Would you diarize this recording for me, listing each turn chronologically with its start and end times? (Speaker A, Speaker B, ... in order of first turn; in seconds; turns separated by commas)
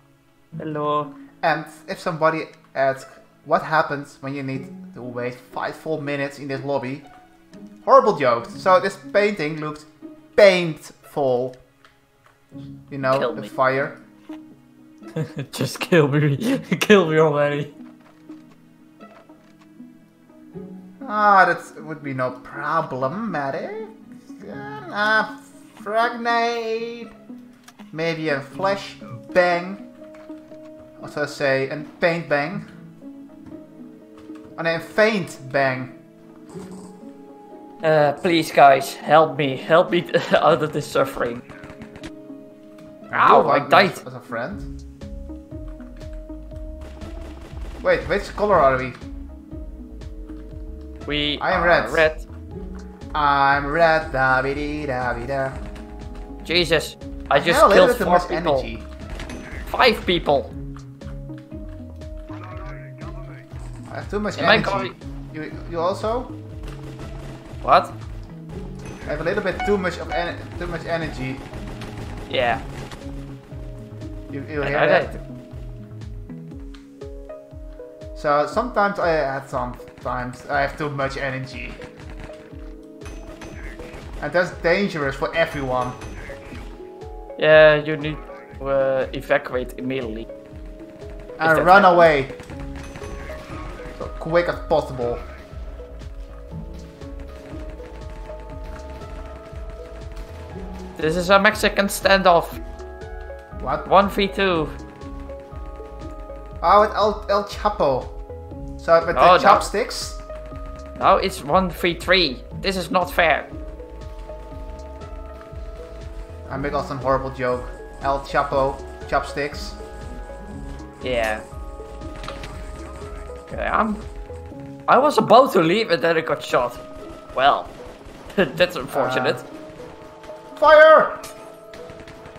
Speaker A: 0.6-1.1, Speaker B: 1.4-7.1, Speaker B: 7.8-11.6, Speaker B: 12.9-14.0, Speaker A: 13.1-13.5, Speaker A: 15.1-17.7, Speaker B: 21.0-27.1, Speaker B: 27.9-29.9, Speaker B: 31.0-32.6, Speaker B: 34.6-36.0, Speaker A: 37.8-41.4, Speaker B: 43.1-44.7, Speaker A: 43.1-44.0, Speaker B: 47.8-49.0, Speaker A: 51.1-52.3, Speaker B: 51.4-52.1, Speaker B: 53.1-55.6, Speaker A: 56.5-58.7, Speaker B: 57.3-58.9, Speaker A: 59.7-60.5, Speaker B: 63.9-66.3, Speaker A: 64.4-64.9, Speaker A: 67.6-68.0, Speaker B: 69.1-71.4, Speaker A: 72.3-72.6, Speaker B: 74.3-75.2, Speaker A: 74.6-75.2, Speaker B: 78.2-81.8, Speaker B: 84.2-86.0, Speaker A: 87.4-90.3, Speaker B: 91.4-92.4, Speaker A: 91.4-92.1, Speaker B: 94.0-95.2, Speaker A: 101.0-102.6, Speaker B: 103.6-103.9, Speaker A: 103.8-104.8, Speaker B: 106.6-108.2, Speaker B: 108.8-110.2, Speaker A: 109.1-109.7, Speaker A: 111.0-113.5, Speaker B: 116.5-119.8, Speaker A: 121.0-121.4, Speaker A: 123.5-124.0, Speaker A: 124.9-126.8, Speaker A: 127.3-127.7, Speaker A: 128.3-129.4, Speaker B: 128.9-129.4, Speaker B: 130.6-131.2